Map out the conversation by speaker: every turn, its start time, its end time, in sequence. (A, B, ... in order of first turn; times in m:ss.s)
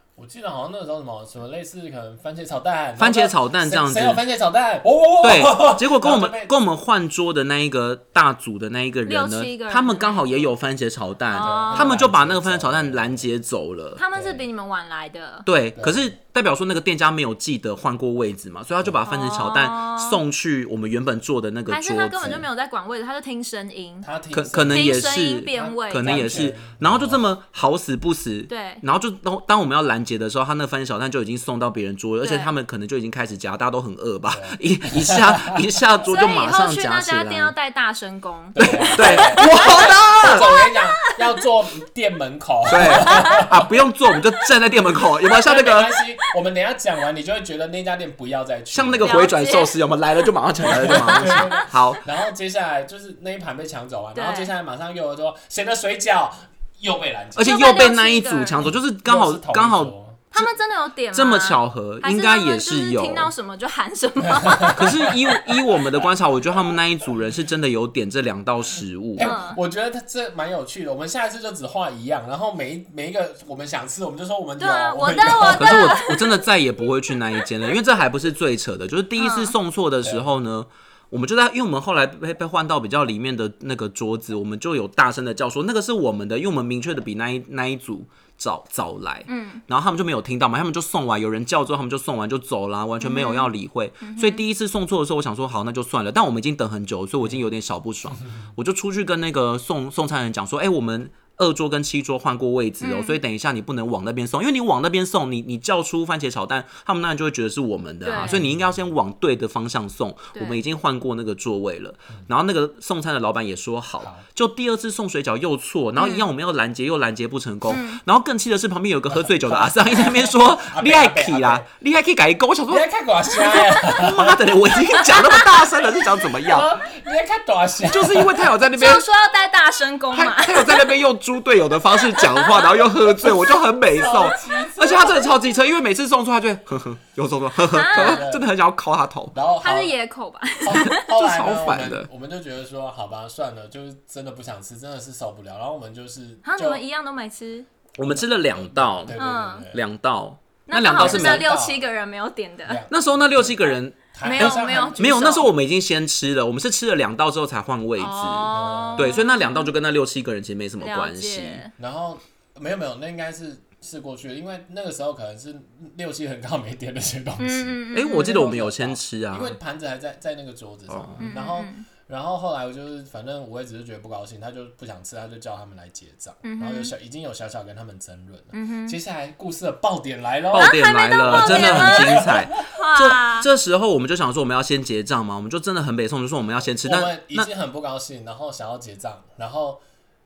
0:00.2-0:06.5 A
0:03.0-0:04.2 B
0:05.2-0:14.0 B
0:09.0-0:10.5 C
0:11.3-0:11.9 C
0:11.4-0:13.3 A
0:14.0-0:15.5 C
0:14.1-0:14.4 A
0:15.4-0:22.4 B
0:15.7-0:16.1 A
0:19.0-0:20.2 C
0:21.7-0:24.1 C
0:24.0-0:27.2 A
0:24.3-0:37.5 B
0:24.7-0:26.4 C
0:28.5-0:28.8 C
0:32.2-0:32.5 C
0:34.3-0:35.6 A
0:36.0-0:41.2 C
0:38.5-0:43.7 A
0:38.6-0:40.5 B
0:42.7-0:46.0 B
0:42.9-0:43.5 C
0:45.3-0:49.4 A
0:48.7-0:52.0 B
0:49.0-0:49.7 C
0:50.6-0:57.7 A
0:50.8-0:51.7 C
0:54.1-0:54.5 C
0:57.4-1:00.5 B
0:57.4-0:58.7 C
0:58.6-1:00.2 A
1:00.3-1:05.4 C
1:01.1-1:03.3 B
1:04.4-1:05.1 A
1:04.7-1:09.3 B
1:09.2-1:15.9 A
1:09.2-1:09.6 C
1:14.6-1:16.4 C
1:15.5-2:02.9 B
1:19.2-1:19.5 C
1:20.0-1:20.3 A
1:29.3-1:29.6 C
1:33.0-1:33.5 C
1:34.0-1:34.4 C
1:42.8-1:43.2 C
1:48.0-1:48.4 C
1:48.2-1:48.8 A
1:50.3-1:50.6 C
1:54.0-1:54.2 A
1:56.0-1:56.3 C
1:57.7-1:58.0 C
1:59.1-2:01.7 A
2:02.7-2:04.5 A
2:03.5-2:06.7 B
2:04.9-2:05.5 C
2:06.4-2:08.5 A
2:07.8-2:09.0 B
2:08.7-2:10.9 C
2:10.1-2:19.4 B
2:12.1-2:12.8 C
2:13.9-2:15.3 A
2:17.7-2:18.3 C
2:17.9-2:18.5 A
2:19.3-2:19.9 A
2:19.6-2:21.0 C
2:20.6-2:26.8 A
2:20.7-2:22.1 B
2:26.4-2:27.7 C
2:28.0-2:29.2 B
2:28.0-2:29.8 A
2:29.1-2:29.7 C
2:29.7-2:31.5 B
2:30.7-2:32.8 C
2:30.9-2:31.8 A
2:32.6-2:35.4 A
2:32.9-2:41.6 B
2:34.2-2:35.5 C
2:38.0-2:39.7 C
2:38.5-2:39.2 A
2:40.8-2:41.7 C
2:41.8-3:02.5 A
2:47.4-2:48.6 C
2:47.9-2:49.6 B
2:50.9-2:51.3 B
2:51.2-2:51.8 C
2:56.4-2:56.9 C
2:58.5-2:59.0 C
3:00.5-3:03.5 C
3:00.5-3:07.5 B
3:06.8-3:09.8 A